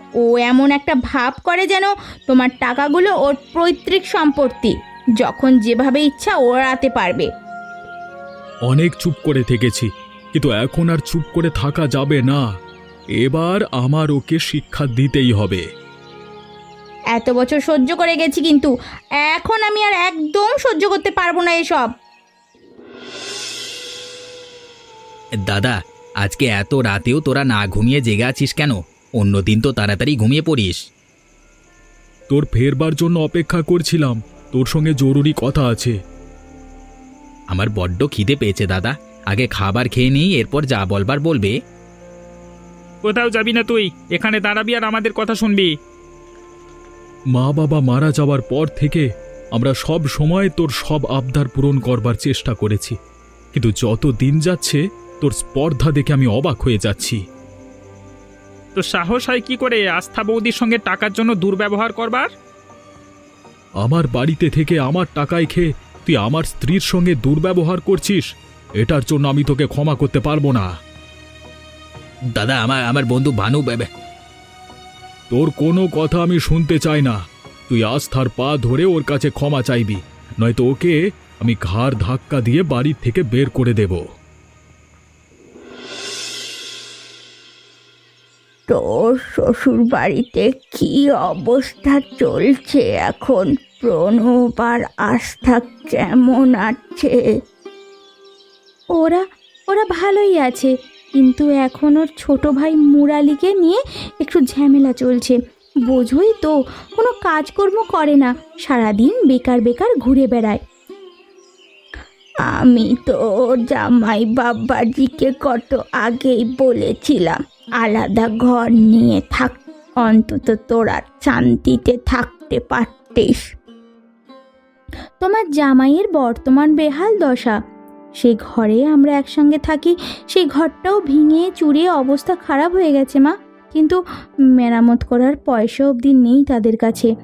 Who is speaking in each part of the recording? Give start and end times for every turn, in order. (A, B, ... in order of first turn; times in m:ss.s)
0:00.2-0:07.3 A
0:08.7-0:12.4 B
0:13.2-0:15.6 B
0:17.1-0:18.7 A
0:19.2-0:21.9 A
0:25.4-0:30.8 C
0:32.3-0:35.9 B
0:37.5-0:41.5 C
0:43.0-0:45.7 D
0:47.4-0:53.0 B
0:53.5-0:57.2 B
0:58.8-1:02.3 D
1:03.8-1:08.2 B
1:08.8-1:10.7 B
1:12.4-1:13.9 C
1:15.3-1:24.0 B
1:28.7-1:37.3 A
1:39.0-1:45.4 A
1:45.9-1:50.6 A
1:52.5-2:03.4 A
2:05.2-2:07.6 A
2:08.2-2:14.0 A
2:14.6-2:17.1 A